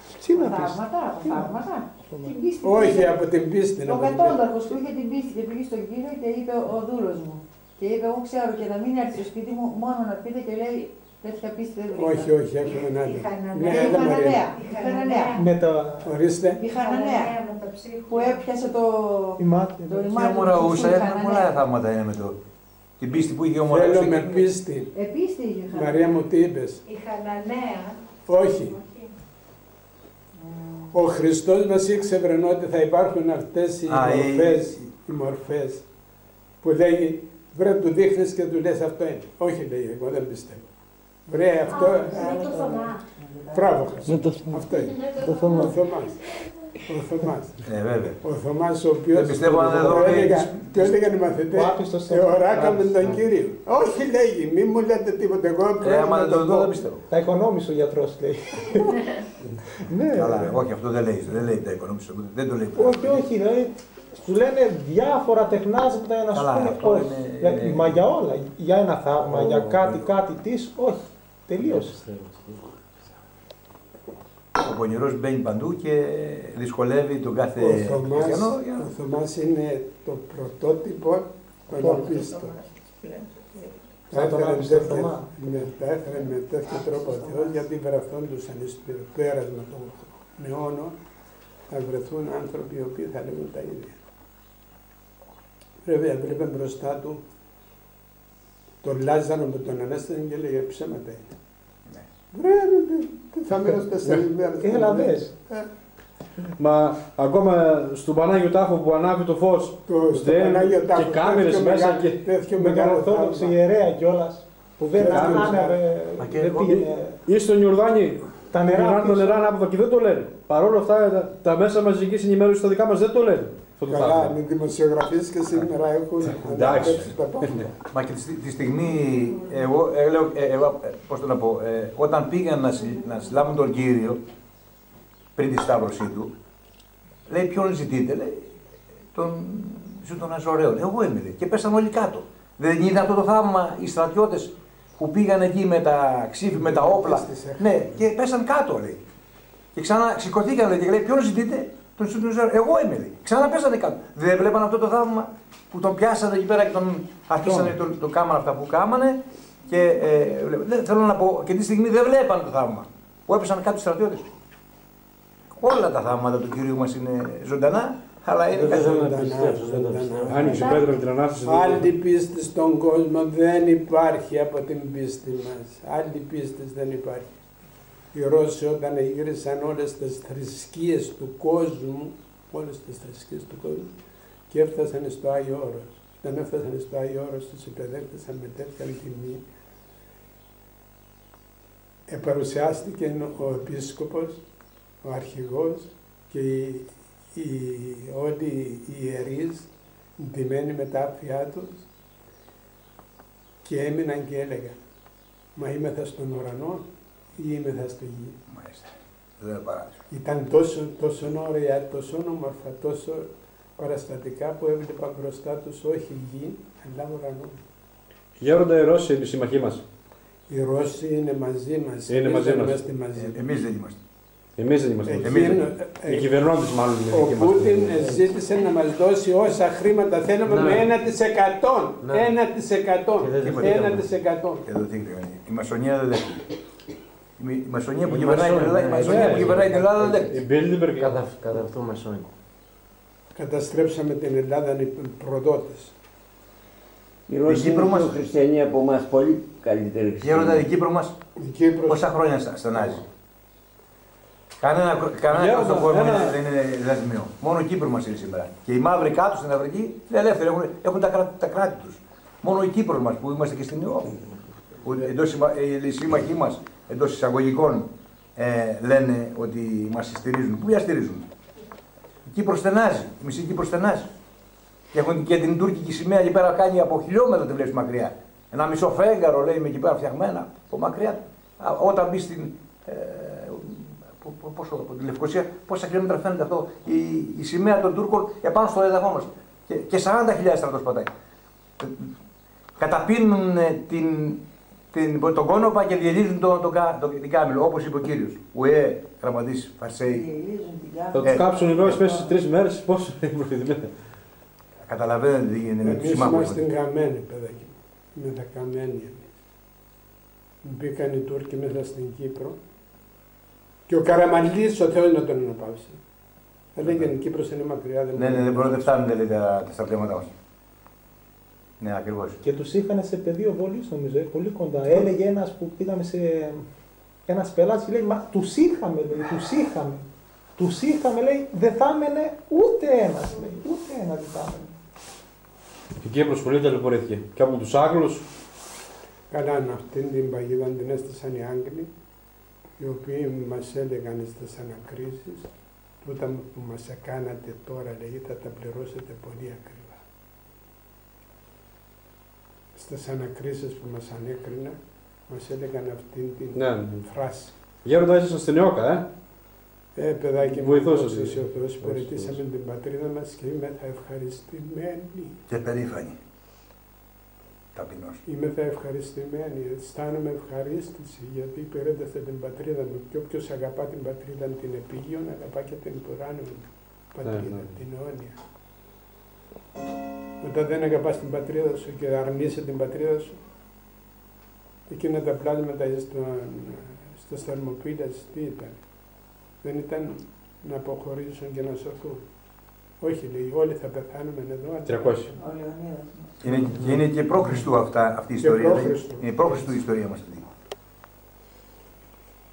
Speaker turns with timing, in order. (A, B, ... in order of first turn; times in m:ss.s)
0:00.1-0:02.4 A
0:00.3-0:03.2 B
0:02.6-0:04.4 C
0:03.8-0:12.4 B
0:12.0-0:14.5 C
0:13.6-0:15.4 B
0:15.3-0:16.2 A
0:16.0-0:16.6 C
0:16.6-0:17.4 B
0:17.5-0:17.9 D
0:18.0-0:21.5 B
0:19.4-0:20.2 A
0:20.1-0:22.4 E
0:23.0-0:24.4 E
0:23.6-0:24.9 C
0:24.9-0:26.1 B
0:25.7-0:26.8 C
0:26.9-0:28.0 D
0:28.2-0:28.8 C
0:30.5-0:30.8 B
0:30.9-0:35.8 C
0:33.9-0:34.9 E
0:36.6-0:40.7 C
0:41.2-0:42.7 C
0:42.0-0:42.8 B
0:42.3-0:43.0 A
0:43.5-0:47.6 C
0:45.2-0:45.8 A
0:47.6-0:48.2 E
0:48.2-0:56.8 C
0:49.1-0:50.8 E
0:51.5-0:53.2 A
0:55.8-0:57.0 E
0:57.1-0:59.0 A
0:59.8-1:00.6 A
1:00.1-1:03.2 E
1:02.8-1:12.0 A
1:06.3-1:08.0 E
1:09.4-1:09.9 F
1:11.6-1:12.8 F
1:14.6-1:18.9 E
1:17.6-1:22.5 C
1:21.7-1:24.0 D
1:21.7-1:22.2 A
1:24.1-1:31.0 C
1:24.1-1:25.3 A
1:31.7-1:34.0 C
1:35.8-1:37.2 C
1:38.8-1:41.3 C
1:42.3-1:45.7 C
1:44.1-1:45.3 A
1:46.6-1:52.3 G
1:49.8-1:53.6 C
1:52.6-1:57.2 A
1:54.9-1:55.8 C
1:55.1-1:55.6 G
1:56.2-1:56.7 F
1:56.5-2:04.3 G
1:58.5-1:59.5 A
2:03.8-2:07.8 C
2:06.3-2:07.6 G
2:07.9-2:14.2 E
2:15.4-2:16.3 E
2:17.3-2:18.6 E
2:19.1-2:29.0 E
2:26.5-2:27.9 C
2:29.7-2:44.3 E
2:37.4-2:37.7 A
2:45.6-2:48.9 E
2:48.5-2:50.7 C
2:48.6-2:50.8 F
2:50.2-2:51.9 G
2:50.4-2:51.0 B
2:51.4-2:57.4 C
2:58.1-3:03.9 C
3:04.5-3:09.4 C
3:12.1-3:14.4 C
3:15.0-3:21.9 C
3:23.6-3:24.8 C
3:25.6-3:28.4 C
3:28.5-3:30.0 E
3:30.1-3:37.6 C
3:38.4-3:39.8 G
3:40.5-3:43.4 C
3:42.1-3:42.8 G
3:43.1-3:44.0 E
3:44.6-3:48.3 G
3:45.0-3:46.3 C
3:45.2-3:45.7 E
3:47.1-3:54.6 C
3:50.5-3:50.9 F
3:52.0-3:52.3 F
3:53.2-3:54.1 F
3:53.4-3:54.0 E
3:54.6-3:56.5 E
3:57.4-4:00.3 E
3:58.0-4:02.3 F
3:59.0-3:59.6 G
4:00.3-4:01.1 G
4:03.4-4:05.9 C
4:07.3-4:10.7 H
4:07.5-4:08.1 E
4:10.2-4:11.2 E
4:11.4-4:12.1 C
4:11.9-4:13.0 E
4:14.6-4:24.2 E
4:15.3-4:16.4 G
4:24.8-4:31.2 E
4:32.2-4:34.1 E
4:34.9-4:51.1 E
4:51.8-4:52.1 E
4:52.8-5:00.2 E
5:00.1-5:02.4 B
5:01.1-5:03.9 G
5:01.2-5:02.0 E
5:04.8-5:06.7 E
5:05.8-5:09.4 C
5:10.6-5:12.6 C
5:13.9-5:16.0 C
5:16.7-5:18.9 C
5:16.8-5:17.1 E
5:18.2-5:20.3 E
5:21.8-5:22.4 E
5:22.4-5:26.6 A
5:27.3-5:34.7 A
5:36.0-5:38.2 G
5:39.3-5:41.9 C
5:42.8-5:45.5 C
5:46.0-5:50.0 C
5:52.7-5:54.8 C
5:55.3-5:57.5 C
5:56.5-5:57.1 G
5:57.8-5:59.1 G
6:00.0-6:05.4 C
6:00.4-6:02.4 G
6:05.5-6:06.2 E
6:07.7-6:08.2 E
6:08.2-6:18.4 C
6:17.2-6:17.8 G
6:20.4-6:23.4 C
6:24.9-6:28.8 C
6:29.6-6:32.2 C
6:33.0-6:35.3 C
6:34.9-6:35.3 G
6:35.3-6:36.4 B
6:36.4-6:40.5 E
6:38.4-6:39.7 C